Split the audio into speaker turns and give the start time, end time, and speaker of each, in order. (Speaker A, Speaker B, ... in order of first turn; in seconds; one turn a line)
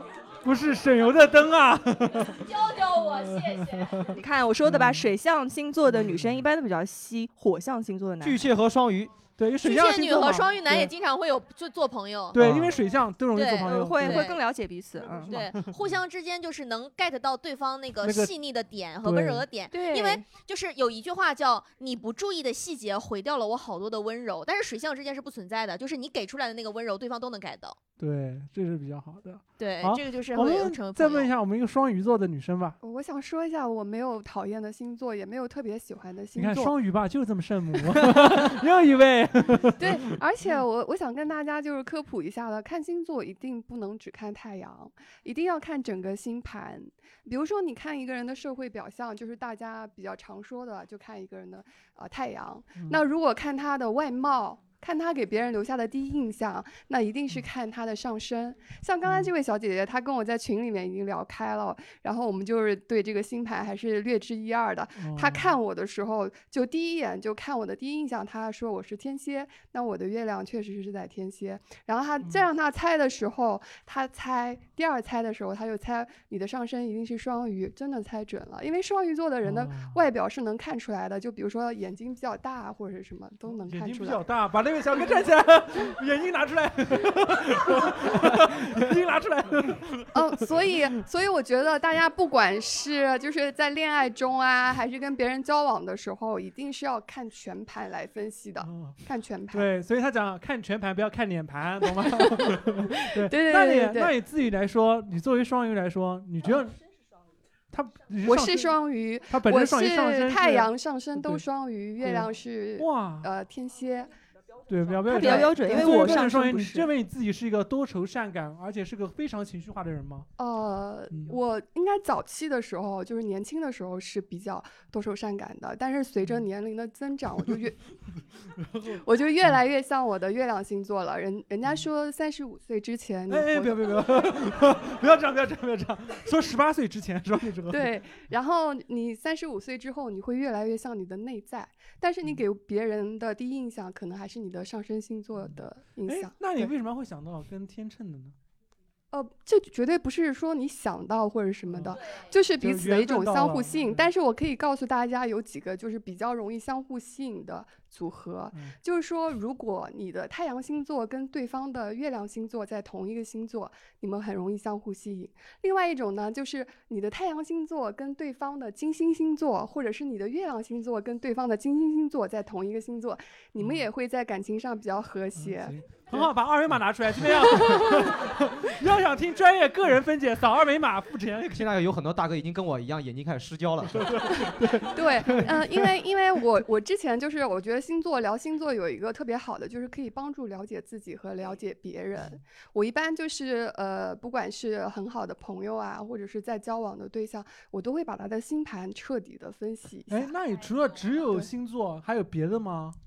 Speaker A: 0.4-4.1
Speaker B: 2.4-3.8
Speaker C: 4.1-8.4
Speaker A: 4.6-5.1
Speaker A: 5.9-6.4
Speaker D: 8.2-9.2
Speaker A: 9.4-10.9
Speaker B: 9.6-12.4
Speaker A: 12.3-14.3
Speaker D: 12.4-12.8
Speaker B: 13.3-14.4
Speaker C: 13.7-15.4
Speaker A: 15.1-15.5
Speaker B: 15.3-27.8
Speaker A: 18.0-18.3
Speaker A: 19.0-19.4
Speaker C: 19.7-20.2
Speaker A: 28.0-32.8
Speaker B: 29.6-31.3
Speaker E: 32.8-36.8
Speaker A: 36.4-40.1
Speaker E: 39.8-84.3
Speaker A: 52.8-53.0
Speaker A: 59.1-59.3
Speaker A: 65.0-65.6
Speaker A: 79.4-80.0
Speaker A: 83.6-91.0
Speaker E: 90.1-99.7
Speaker A: 98.6-106.8
Speaker E: 103.2-104.2
Speaker A: 107.7-108.8
Speaker E: 108.2-114.2
Speaker A: 109.3-111.5
Speaker A: 112.0-113.3
Speaker A: 114.7-120.3
Speaker C: 115.1-116.9
Speaker E: 115.3-116.2
Speaker E: 120.4-127.8
Speaker A: 121.1-121.4
Speaker E: 129.0-134.3
Speaker A: 133.3-137.9
Speaker E: 137.7-146.7
Speaker A: 146.1-148.3
Speaker E: 149.1-176.3
Speaker A: 151.7-152.0
Speaker A: 152.6-154.1
Speaker A: 173.6-173.9
Speaker A: 175.4-181.7
Speaker D: 181.5-184.2
Speaker A: 183.9-186.0
Speaker E: 184.9-200.3
Speaker A: 200.1-203.0